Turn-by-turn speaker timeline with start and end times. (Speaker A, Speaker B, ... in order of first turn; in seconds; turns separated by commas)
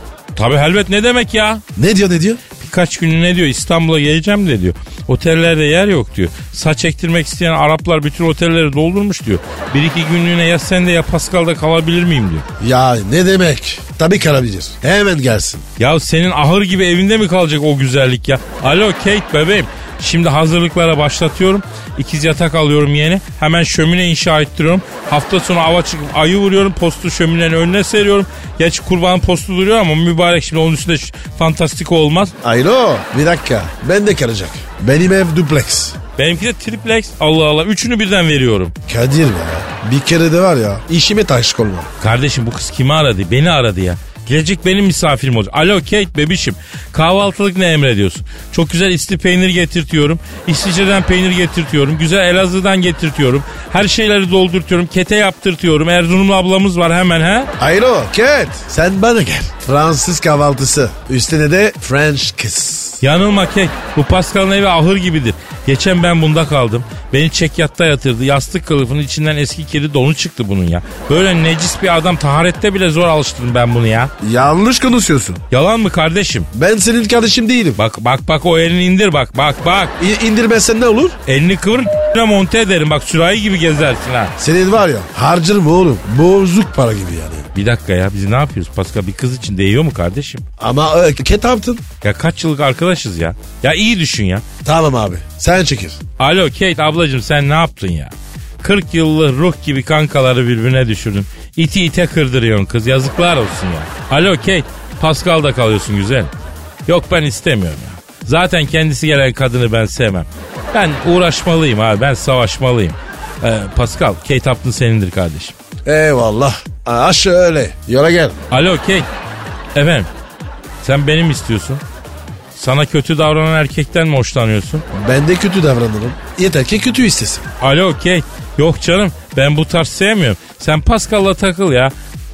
Speaker A: 0.3-1.6, Speaker B: 1.8-2.4, Speaker A: 2.6-12.4, Speaker B: 12.6-15.6, Speaker A: 15.8-32.3, Speaker B: 32.4-36.0, Speaker A: 36.2-38.7, Speaker B: 38.9-41.9, Speaker A: 42.0-57.5, Speaker B: 57.6-63.0, Speaker A: 63.0-74.1, Speaker B: 74.2-75.4, Speaker A: 75.5-76.5, Speaker B: 76.5-77.8, Speaker A: 77.8-79.9, Speaker B: 80.0-81.2, Speaker A: 81.3-84.3, Speaker B: 84.4-87.5, Speaker A: 87.5-90.4, Speaker B: 90.6-91.8, Speaker A: 92.0-94.4, Speaker B: 94.6-96.0, Speaker A: 96.2-106.3, Speaker A: 106.9-115.5, Speaker B: 115.8-118.4, Speaker A: 118.5-119.1, Speaker A: 119.7-120.1, Speaker A: 120.8-121.8, Speaker A: 122.5-124.8, Speaker B: 124.9-127.4, Speaker A: 127.6-131.9